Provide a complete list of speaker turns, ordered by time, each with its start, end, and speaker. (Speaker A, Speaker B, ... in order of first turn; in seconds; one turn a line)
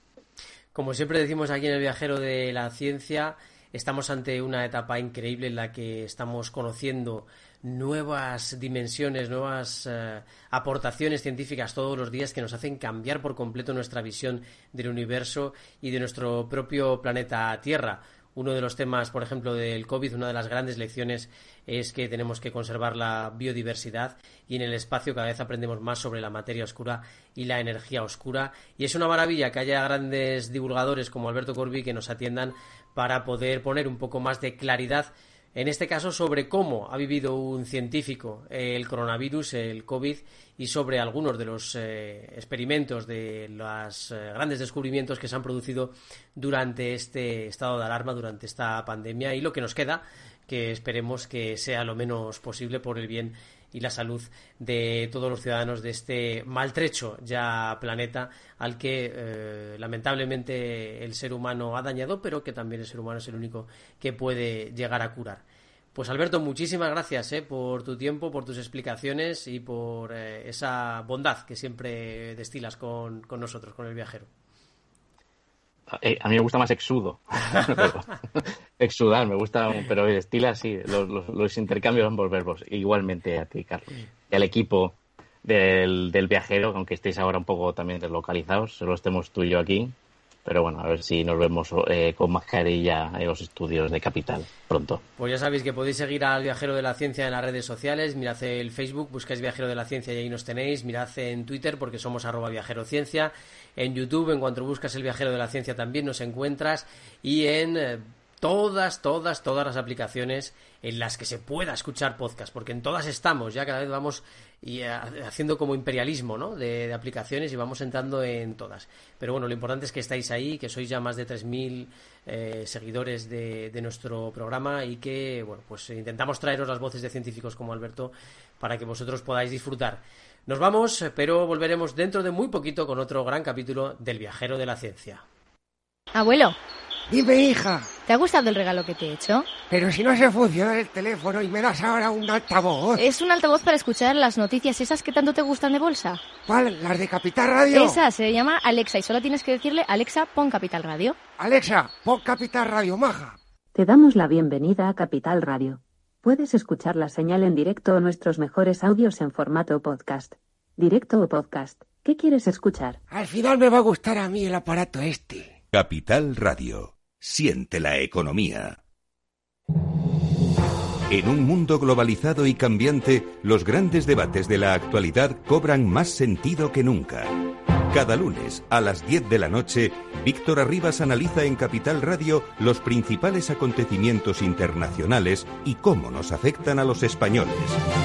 Speaker A: 0.7-74.3
Speaker B: 75.9-89.9
Speaker B: 90.4-95.0
Speaker A: 95.2-135.2
Speaker C: 136.1-136.6
Speaker D: 137.1-137.9
Speaker C: 138.1-139.5
Speaker D: 139.7-143.0
Speaker C: 143.0-146.2
Speaker D: 146.4-148.0
Speaker C: 147.7-151.2
Speaker D: 151.4-153.4
Speaker E: 153.7-163.0
Speaker D: 163.1-165.5
Speaker F: 165.7-168.8
Speaker F: 171.1-187.8